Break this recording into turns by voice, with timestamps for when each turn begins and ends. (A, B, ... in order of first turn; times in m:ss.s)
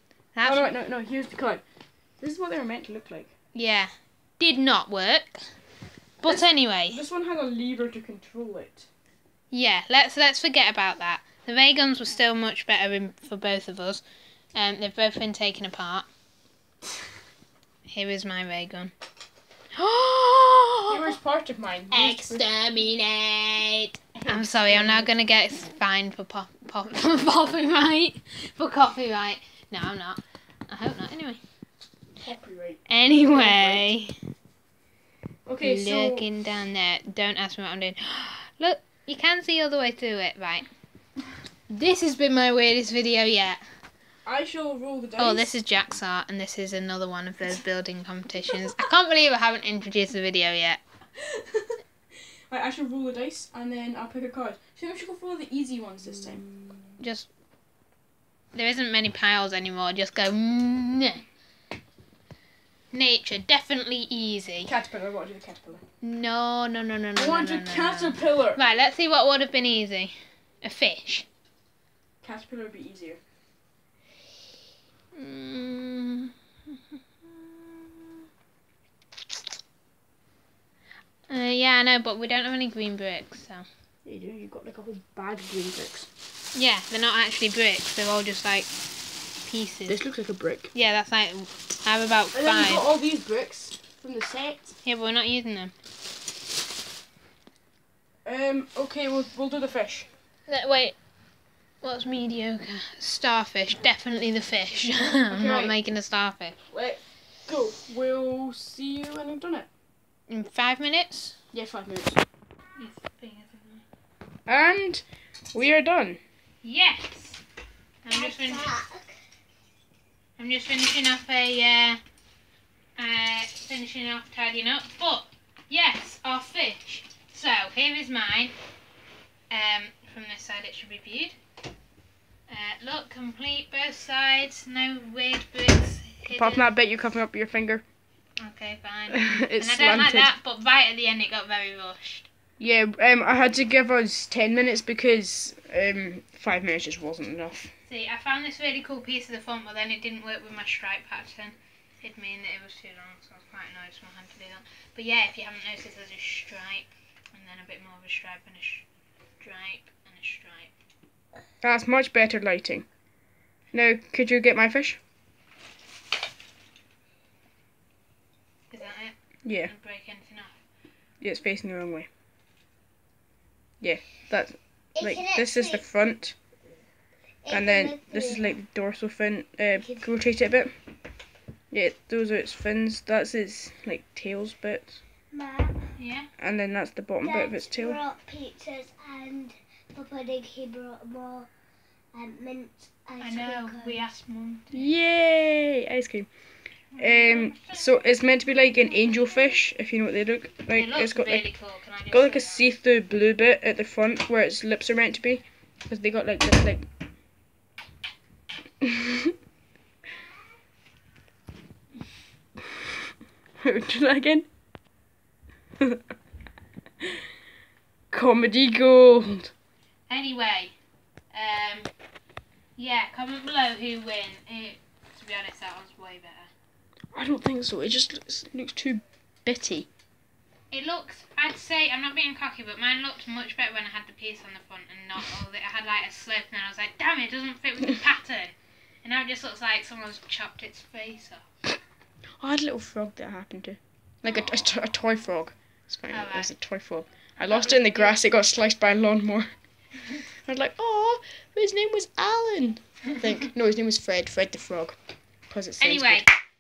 0:00.4-0:00.7 A
0:00.4-0:01.6 B
0:02.2-0:03.3 B
0:03.5-0:05.6 A
0:06.2-0:07.0 A
0:06.2-0:08.9 B
0:09.5-0:14.0 A
0:14.6-0:16.1 A
0:17.9-0:18.9 A
0:19.8-0:21.1 A
0:20.9-0:22.5 B
0:21.9-0:31.4 A
0:24.2-0:25.2 B
0:32.2-0:33.9 B
0:32.9-0:34.2 A
0:35.5-0:36.3 B
0:35.6-0:40.7 A
0:41.7-0:43.6 A
0:44.2-0:45.6 B
0:45.2-0:50.8 A
0:51.2-0:51.8 B
0:52.5-0:56.5 B
0:57.0-0:57.3 A
0:58.5-1:01.2 A
1:02.9-1:04.7 A
1:04.7-1:05.8 B
1:06.0-1:11.3 A
1:07.2-1:08.6 B
1:12.2-1:13.2 B
1:15.2-1:16.3 A
1:17.0-1:18.1 A
1:21.3-1:23.7 A
1:24.0-1:26.1 B
1:26.5-1:28.7 A
1:29.4-1:30.0 A
1:29.9-1:30.7 B
1:30.7-1:32.8 A
1:32.3-1:34.8 B
1:34.8-1:35.7 A
1:38.2-1:40.1 B
1:40.5-1:41.0 A
1:41.8-1:46.6 A
1:45.3-1:45.8 B
1:46.7-1:49.7 B
1:50.3-1:51.4 A
1:51.5-1:52.2 B
1:52.8-1:53.8 A
1:54.5-1:56.2 B
1:56.6-1:57.4 A
1:58.0-1:58.7 A
1:58.1-1:59.1 C
2:00.4-2:02.0 A
2:03.0-2:08.5 A
2:09.5-2:11.4 A
2:12.5-2:16.7 A
2:16.3-2:17.8 B
2:18.4-2:22.3 A
2:19.1-2:20.3 B
2:22.6-2:27.7 B
2:27.9-2:38.9 A
2:39.4-2:40.7 A
2:41.6-2:42.9 B
2:43.7-2:45.0 B
2:48.7-2:50.6 A
2:49.4-2:49.7 B
2:51.2-2:52.1 B
2:53.8-2:56.4 B
2:55.0-2:55.8 C
2:57.4-2:58.5 C
2:57.5-3:00.8 B
2:59.8-3:00.1 C
3:01.7-3:05.0 B
3:05.3-3:05.8 C
3:06.0-3:06.3 A
3:06.4-3:08.0 B
3:07.2-3:11.5 C
3:12.1-3:14.1 C
3:13.2-3:14.9 A
3:14.7-3:16.3 B
3:16.9-3:18.1 A
3:17.0-3:21.5 B
3:19.0-3:19.6 C
3:20.7-3:22.7 A
3:22.1-3:26.9 B
3:28.8-3:29.3 B
3:33.6-3:34.5 B
3:38.1-3:39.5 B
3:40.1-3:40.7 A
3:41.3-3:41.9 A
3:42.8-3:46.5 A
3:47.1-3:49.9 B
3:50.7-4:01.4 A
4:02.4-4:09.5 B
4:04.3-4:04.6 A
4:06.1-4:06.5 A
4:07.5-4:08.2 A
4:10.4-4:15.0 B
4:15.5-4:16.2 B
4:15.8-4:16.3 A